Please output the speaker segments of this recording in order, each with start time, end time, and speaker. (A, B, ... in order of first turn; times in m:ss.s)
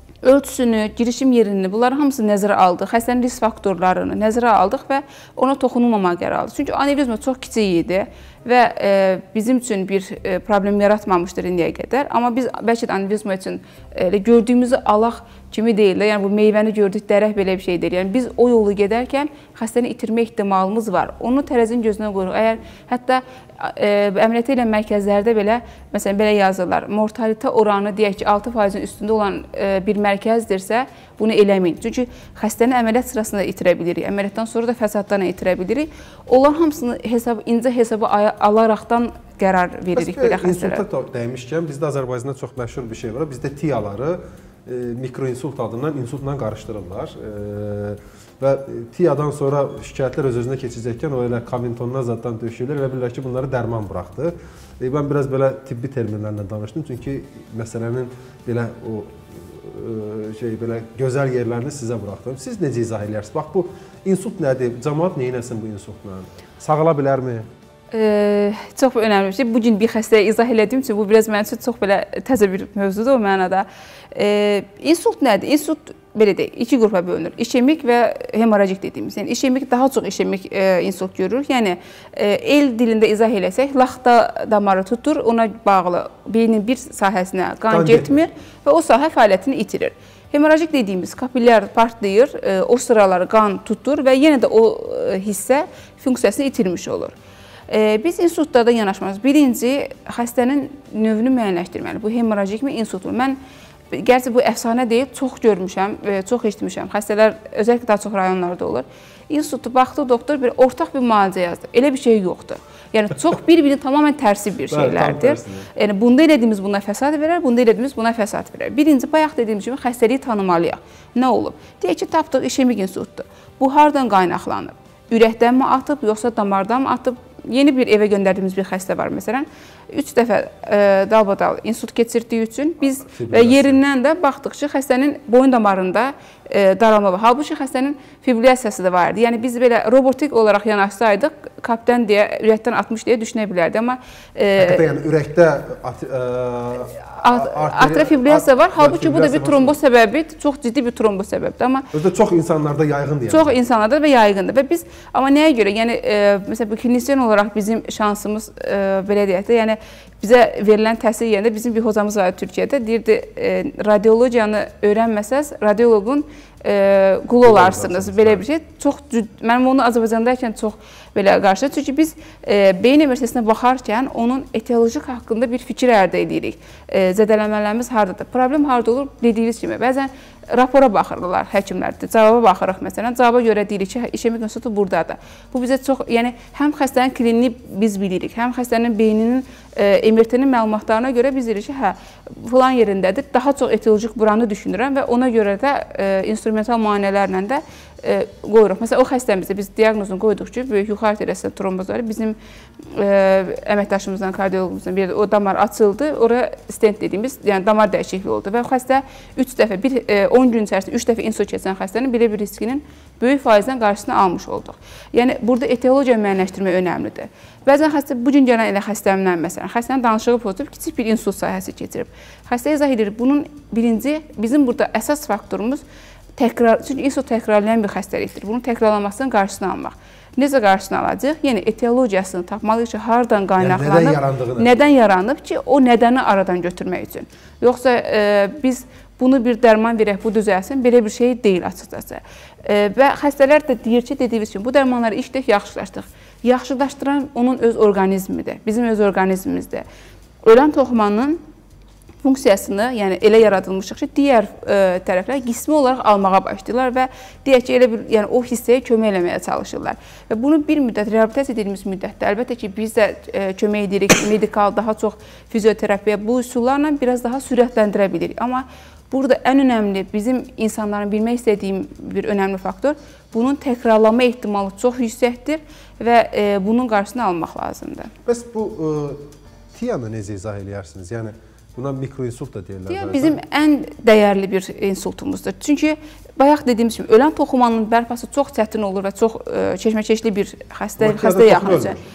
0:00.2-0:40.8 A
0:39.9-1:07.5 B
1:07.9-1:37.1 A
1:27.7-1:28.2 B
1:37.7-1:43.4 A
1:43.9-2:24.8 A
1:54.7-1:55.7 B
2:13.0-2:13.8 B
2:24.6-2:29.8 B
2:27.1-2:31.9 A
2:31.9-2:33.6 B
2:33.3-3:22.4 A
2:47.4-2:48.4 B
3:22.9-3:45.8 A
3:46.4-4:09.8 A
3:53.6-3:54.7 B
4:10.4-4:11.4 A
4:12.2-4:38.1 A
4:38.2-4:43.4 B
4:42.9-4:52.0 A
4:51.0-4:52.0 B